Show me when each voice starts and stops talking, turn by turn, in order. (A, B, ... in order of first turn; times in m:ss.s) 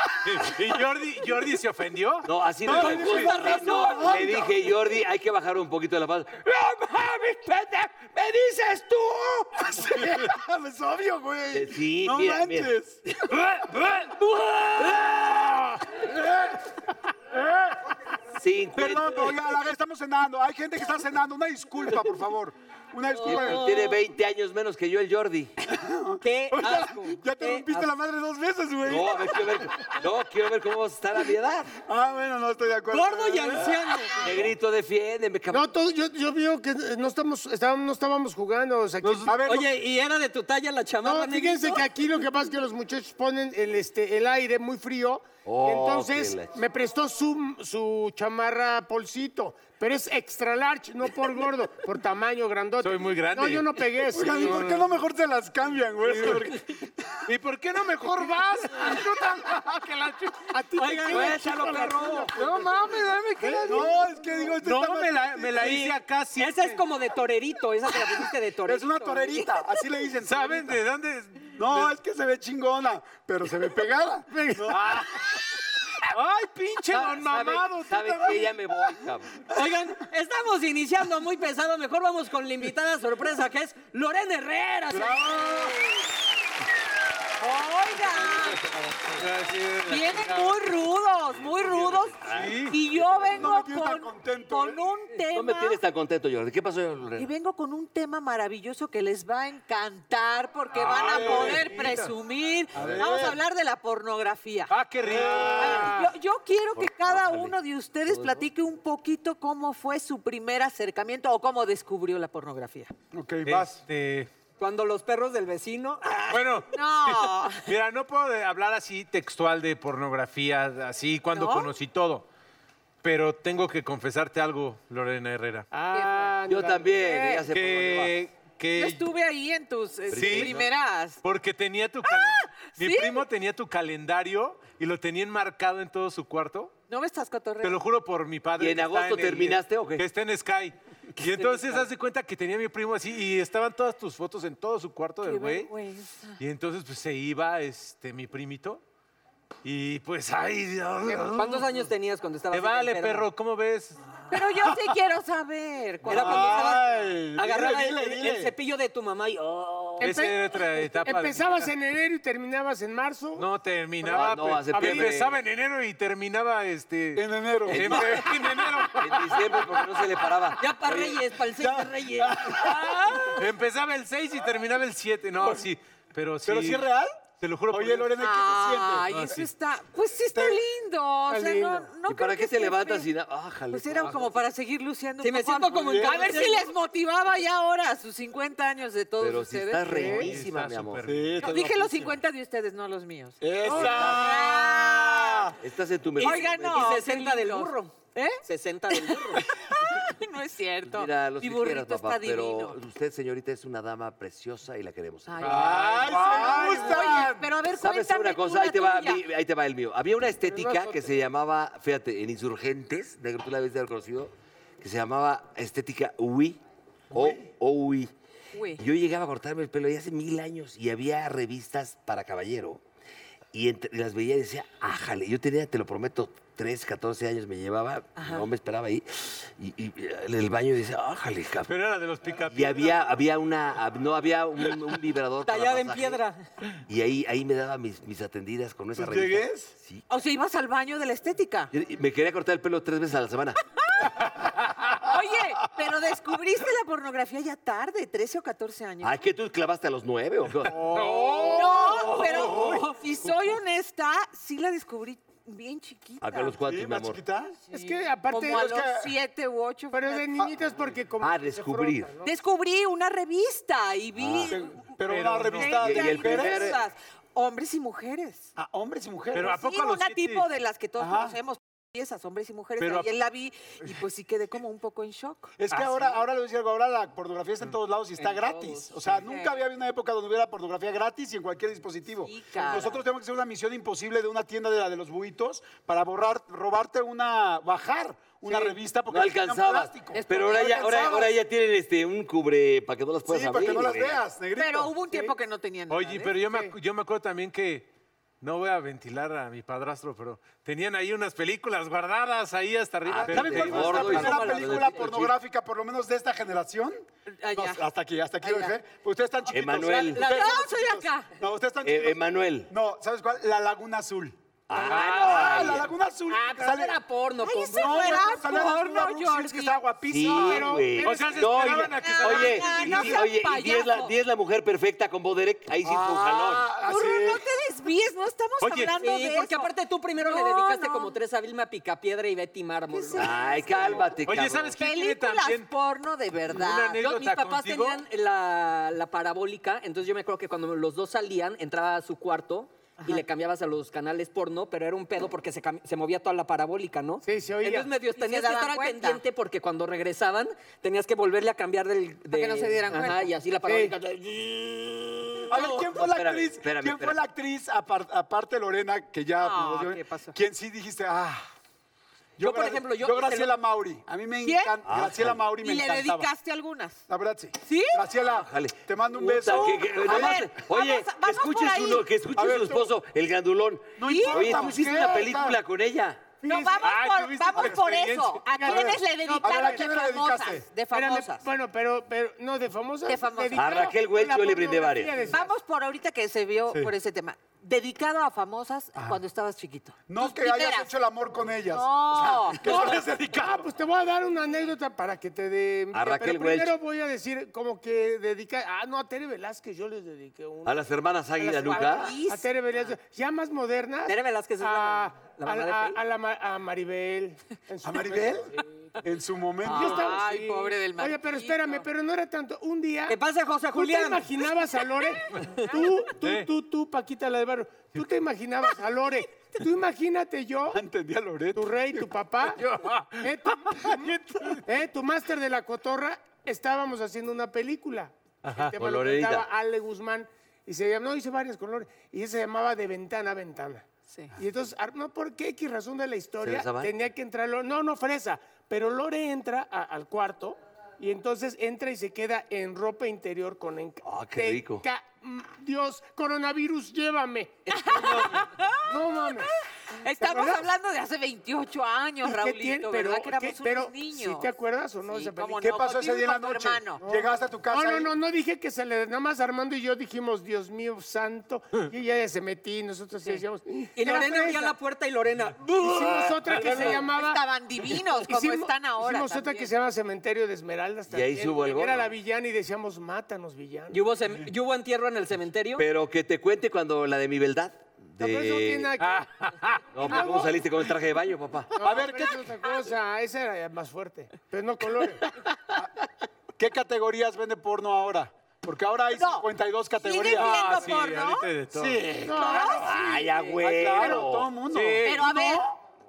0:00.2-0:03.6 A
0:02.2-0:06.5 B
0:02.6-0:04.6 C
0:03.0-0:04.2 D
0:08.0-0:08.9 B
0:09.7-0:13.0 C
0:11.5-0:12.7 B
0:13.2-0:15.8 B
0:18.4-0:19.4 B
0:18.8-0:23.9 C
0:23.1-0:24.0 D
0:23.2-0:25.5 B
0:25.7-0:30.0 C
0:26.2-0:27.9 D
0:28.8-0:31.7 B
0:31.8-0:34.1 C
0:32.9-0:34.3 D
0:34.2-0:35.7 B
0:35.5-0:39.4 E
0:39.0-0:39.3 A
0:39.3-0:39.7 C
0:39.4-0:41.8 D
0:41.0-0:54.6 E
0:45.4-0:46.6 B
0:52.8-0:54.9 A
0:54.1-0:57.2 C
0:56.0-0:56.6 A
0:57.2-1:00.5 A
0:58.3-0:58.9 E
1:00.5-1:02.5 E
1:00.8-1:01.3 D
1:01.0-1:02.5 B
1:02.3-1:06.8 A
1:03.4-1:05.7 C
1:05.6-1:09.5 D
1:08.6-1:10.8 C
1:10.2-1:11.9 A
1:11.6-1:15.1 C
1:14.3-1:14.8 E
1:14.7-1:15.1 A
1:16.1-1:18.6 A
1:16.9-1:19.4 B
1:19.5-1:25.7 D
1:24.9-1:25.7 C
1:27.4-1:28.6 F
1:29.2-1:30.6 A
1:29.8-1:35.8 F
1:31.3-1:33.5 B
1:32.2-1:32.8 A
1:33.3-1:34.8 C
1:35.3-1:37.3 B
1:37.2-1:44.7 F
1:40.7-1:42.1 A
1:41.1-1:41.6 C
1:42.7-1:43.4 B
1:42.7-1:43.4 C
1:44.7-1:45.9 A
1:45.0-1:46.0 C
1:45.2-1:46.0 E
1:45.5-1:52.9 F
1:46.7-1:48.5 B
1:53.1-1:53.8 C
1:53.4-1:54.3 A
1:54.6-1:56.6 D
1:56.3-2:02.2 A
1:56.7-1:57.7 F
2:01.3-2:01.7 F
2:03.0-2:05.7 A
2:05.7-2:07.1 E
2:05.9-2:06.4 F
2:06.5-2:08.1 B
2:07.0-2:07.4 F
2:07.5-2:09.0 A
2:08.7-2:11.2 F
2:10.1-2:10.7 B
2:10.1-2:10.6 A
2:11.2-2:16.7 A
2:12.0-2:13.2 F
2:16.9-2:17.8 F
2:17.6-2:25.7 A
2:18.6-2:20.0 B
2:25.2-2:26.4 F
2:26.4-2:28.8 A
2:29.6-2:31.8 A
2:31.3-2:33.3 D
2:32.5-2:34.0 A
2:34.3-2:36.7 F
2:36.0-2:38.5 C
2:36.1-2:40.1 D
2:40.0-2:43.5 E
2:40.0-2:41.7 A
2:43.4-2:50.3 A
2:44.0-2:45.4 B
2:44.7-2:45.1 E
2:47.2-2:48.9 C
2:47.7-2:51.2 B
2:50.6-2:53.2 D
2:51.6-2:53.2 C
2:53.2-2:56.8 A
2:56.4-2:57.2 C
2:57.4-2:58.1 A
2:57.7-2:59.0 C
2:58.2-3:03.0 F
2:59.1-2:59.5 A
3:00.3-3:00.6 C
3:01.3-3:01.9 E
3:02.1-3:04.4 B
3:03.7-3:10.2 F
3:05.2-3:06.7 D
3:05.8-3:06.5 C
3:09.2-3:11.1 B
3:09.9-3:10.3 E
3:10.0-3:11.6 A
3:11.0-3:12.1 C
3:11.4-3:15.5 F
3:13.4-3:15.3 C
3:13.7-3:14.4 B
3:13.8-3:14.2 A
3:15.0-3:15.3 A
3:15.6-3:16.9 B
3:16.2-3:17.9 D
3:16.2-3:22.8 F
3:18.4-3:19.4 D
3:20.8-3:26.3 B
3:25.2-3:29.2 F
3:25.4-3:26.9 A
3:25.4-3:27.5 C
3:27.7-3:38.1 B
3:30.5-3:31.1 E
3:37.1-3:37.4 C
3:38.5-3:38.8 F
3:38.8-3:42.8 B
3:43.5-3:51.7 B
3:48.2-3:48.5 F
3:51.7-3:53.0 A
3:52.4-3:56.2 B
3:55.4-3:56.4 D
3:56.9-4:00.0 B
3:58.9-3:59.7 A
4:00.1-4:01.7 F
4:01.7-4:03.6 B
4:04.0-4:05.1 A
4:05.0-4:09.2 F
4:09.0-4:11.0 B
4:10.7-4:12.8 A
4:11.1-4:11.4 C
4:11.3-4:16.6 F
4:11.4-4:11.9 E
4:12.3-4:12.8 C
4:12.4-4:12.8 D
4:16.2-4:17.2 B
4:16.6-4:17.6 C
4:17.7-4:18.7 E
4:17.7-4:20.3 F
4:18.3-4:19.2 C
4:19.9-4:22.3 E
4:21.2-4:22.1 B
4:22.2-4:24.9 F
4:24.2-4:24.6 B
4:24.5-4:26.8 C
4:25.0-4:25.8 A
4:25.5-4:28.5 F
4:25.8-4:26.8 B
4:28.6-4:29.6 C
4:29.3-4:30.5 A
4:29.4-4:35.5 F
4:31.0-4:31.4 C
4:32.8-4:33.1 A
4:35.6-4:51.3 C
4:35.7-4:36.2 A
4:38.2-4:38.8 D
4:39.2-4:39.6 F
4:42.2-4:43.0 F
4:49.1-4:54.2 B
4:50.1-4:51.2 F
4:53.2-4:54.9 C
4:54.6-4:56.4 F
4:55.9-4:57.9 A
4:58.4-5:04.5 A
5:03.0-5:05.3 B
5:03.2-5:17.0 C
5:03.9-5:05.0 D
5:07.4-5:07.8 F
5:08.4-5:08.7 D
5:09.5-5:10.2 B
5:10.1-5:11.3 F
5:10.2-5:10.5 D
5:11.8-5:12.7 B
5:14.7-5:15.9 B
5:14.8-5:15.8 A
5:16.3-5:18.2 D
5:17.4-5:19.8 F
5:17.7-5:20.8 C
5:20.1-5:26.7 B
5:20.4-5:21.6 E
5:21.0-5:23.3 A
5:22.0-5:24.1 F
5:25.8-5:27.4 C
5:26.8-5:31.1 F
5:28.6-5:28.9 A
5:29.0-5:33.5 D
5:32.9-5:34.1 F
5:33.2-5:34.8 B
5:34.2-5:35.7 A
5:34.8-5:37.0 F
5:36.5-5:38.0 A
5:37.0-5:55.7 D
5:47.2-5:47.9 E
5:48.2-5:49.2 F
5:52.3-5:53.3 F
5:53.7-5:53.9 E
5:55.5-6:01.4 C
5:55.8-5:57.2 B
5:59.4-6:00.3 F
6:02.4-6:06.3 C
6:02.4-6:03.6 D
6:04.4-6:04.8 F
6:04.8-6:05.4 B
6:05.6-6:07.0 F
6:07.1-6:10.5 C
6:07.6-6:08.0 F
6:08.2-6:16.4 B
6:09.5-6:12.0 F
6:12.4-6:12.9 C
6:14.0-6:15.6 C
6:14.0-6:14.4 F
6:16.4-6:17.0 E
6:16.4-6:21.4 F
6:16.8-6:18.7 A
6:18.5-6:19.9 E
6:18.7-6:20.7 C
6:20.9-6:25.5 E
6:23.1-6:23.6 F
6:23.5-6:25.2 B
6:25.3-6:30.9 F
6:28.9-6:29.2 C
6:30.1-6:33.6 C
6:31.7-6:32.6 F
6:32.6-6:40.8 E
6:35.9-6:36.8 B
6:40.6-6:42.2 B
6:41.4-6:48.6 E
6:41.7-6:42.5 F
6:44.1-6:46.0 D
6:47.8-6:48.5 C
6:49.0-6:50.2 C
6:49.6-6:51.9 F
6:49.6-6:53.2 E
6:53.1-6:54.3 D
6:53.7-7:00.8 E
6:55.4-6:56.5 A
7:00.7-7:02.0 C
7:01.6-7:02.6 E
7:02.6-7:04.6 A
7:03.2-7:04.1 E
7:04.6-7:13.8 E
7:08.5-7:08.7 A
7:08.8-7:09.5 B
7:14.4-7:29.5 E
7:16.4-7:16.9 B
7:24.0-7:24.8 B
7:27.7-7:34.5 F
7:30.2-7:30.7 E
7:32.2-7:35.9 E
7:35.1-7:37.0 F
7:35.6-7:38.2 C
7:37.0-7:44.8 E
7:44.0-7:47.0 D
7:45.8-7:47.4 E
7:46.5-7:46.9 A
7:46.8-7:49.7 F
7:48.1-7:54.1 E
7:51.1-7:52.1 B
7:53.9-7:55.8 D
7:55.8-7:59.0 B
7:58.2-7:59.3 E
7:59.0-8:00.2 A
7:59.9-8:01.7 B
8:00.0-8:00.6 E
8:01.8-8:05.3 E
8:01.8-8:02.5 C
8:06.6-8:10.9 C
8:09.1-8:09.5 F
8:10.0-8:11.5 F
8:10.3-8:12.1 A
8:11.7-8:15.8 C
8:12.2-8:13.6 E
8:12.3-8:12.9 F
8:12.8-8:14.5 B
8:14.7-8:15.3 A
8:15.0-8:15.7 F